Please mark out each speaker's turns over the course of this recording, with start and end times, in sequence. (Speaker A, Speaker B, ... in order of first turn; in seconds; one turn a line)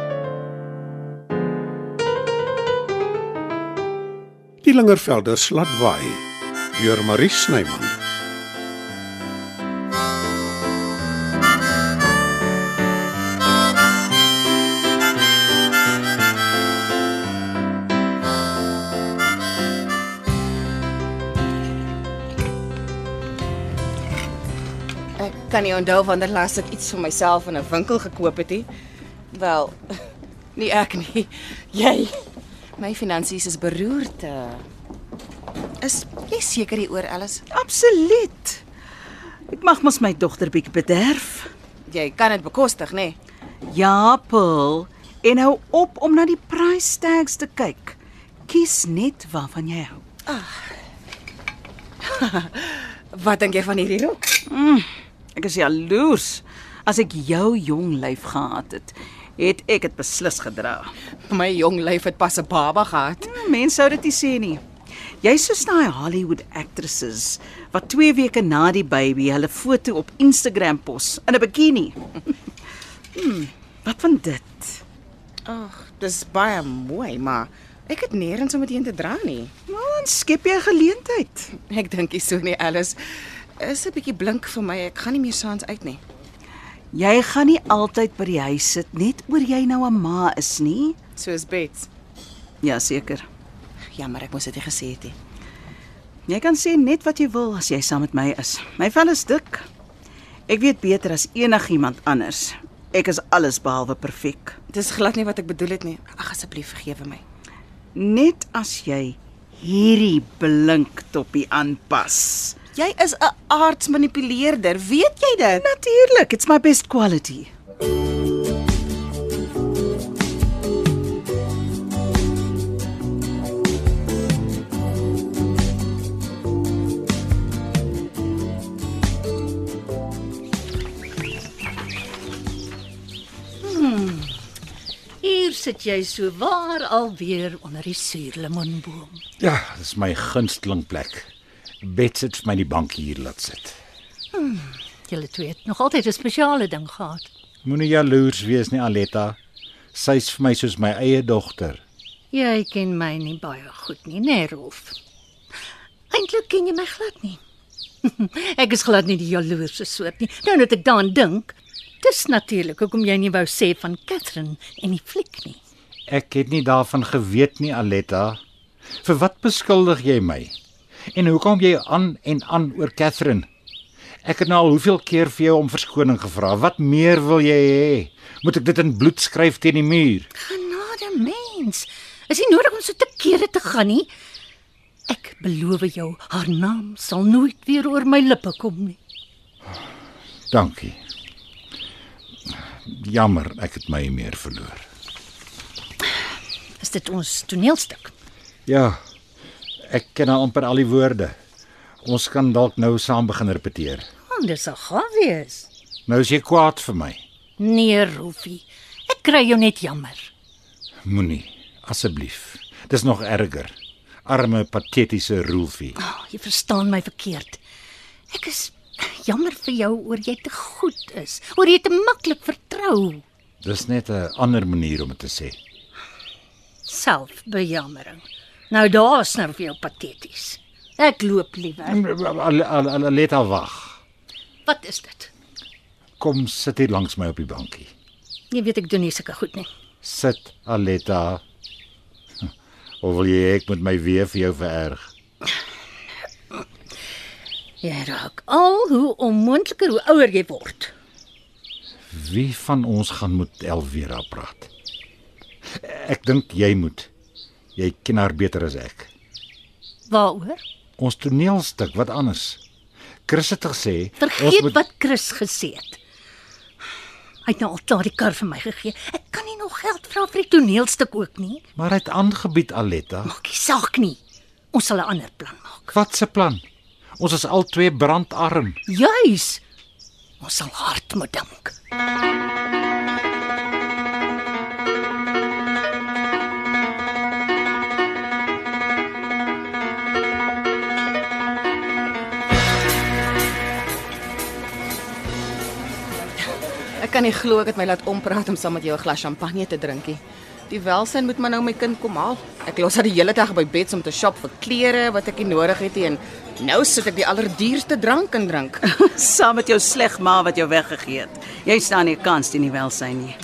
Speaker A: 4.6-8.0
Speaker B: 25.2-28.7
Speaker B: 29.3-32.2
Speaker B: 32.8-34.7
Speaker B: 35.8-37.4
Speaker C: 37.5-38.6
Speaker C: 39.5-41.5
Speaker B: 41.9-43.2
Speaker C: 43.7-50.0
Speaker B: 50.2-50.7
Speaker B: 52.0-54.5
Speaker C: 54.5-60.9
Speaker B: 61.3-63.3
Speaker C: 63.2-64.6
Speaker C: 65.2-72.2
Speaker C: 73.2-74.8
Speaker B: 75.5-79.5
Speaker C: 79.7-81.5
Speaker B: 81.5-83.0
Speaker B: 83.6-86.0
Speaker C: 86.9-91.0
Speaker B: 91.1-91.9
Speaker C: 92.6-93.3
Speaker B: 93.9-95.2
Speaker C: 96.3-99.7
Speaker C: 100.5-104.6
Speaker B: 104.7-107.2
Speaker C: 108.0-112.6
Speaker B: 112.7-115.7
Speaker C: 115.6-117.5
Speaker D: 133.6-134.3
Speaker D: 135.2-139.2
Speaker E: 139.4-141.3
Speaker E: 141.8-143.8
Speaker D: 144.3-147.3
Speaker E: 147.6-149.4
Speaker E: 149.9-151.8
Speaker D: 152.3-154.9
Speaker D: 156.1-157.4
Speaker D: 158.0-165.6
Speaker E: 166.1-168.4
Speaker E: 169.0-170.5
Speaker E: 171.1-173.5
Speaker E: 174.2-180.3
Speaker D: 180.4-184.1
Speaker D: 185.1-189.0
Speaker E: 190.5-191.0
Speaker E: 192.5-194.8
Speaker D: 196.8-198.1
Speaker E: 198.7-199.0
Speaker E: 199.8-201.3
Speaker E: 202.0-204.0
Speaker D: 204.3-205.7
Speaker E: 206.1-207.2
Speaker D: 207.6-210.3
Speaker E: 211.1-213.7
Speaker E: 214.2-216.0
Speaker D: 216.0-217.6
Speaker D: 218.3-223.2
Speaker E: 223.6-225.6
Speaker D: 226.9-232.0
Speaker E: 231.9-234.0
Speaker D: 234.7-235.3
Speaker E: 236.2-237.9
Speaker D: 238.5-239.7
Speaker E: 240.0-241.4
Speaker E: 243.0-245.1
Speaker D: 247.8-250.9
Speaker E: 252.1-254.7
Speaker E: 255.8-257.1
Speaker E: 257.8-259.1
Speaker D: 260.1-260.6
Speaker E: 261.0-262.6
Speaker E: 263.3-264.8
Speaker D: 264.2-266.0
Speaker D: 267.4-271.7
Speaker E: 271.8-273.3
Speaker D: 273.2-274.2
Speaker D: 274.7-275.9
Speaker E: 275.9-276.6
Speaker E: 277.2-278.8
Speaker D: 278.9-279.6
Speaker D: 280.4-281.7
Speaker B: 297.0-308.8
Speaker C: 308.8-313.4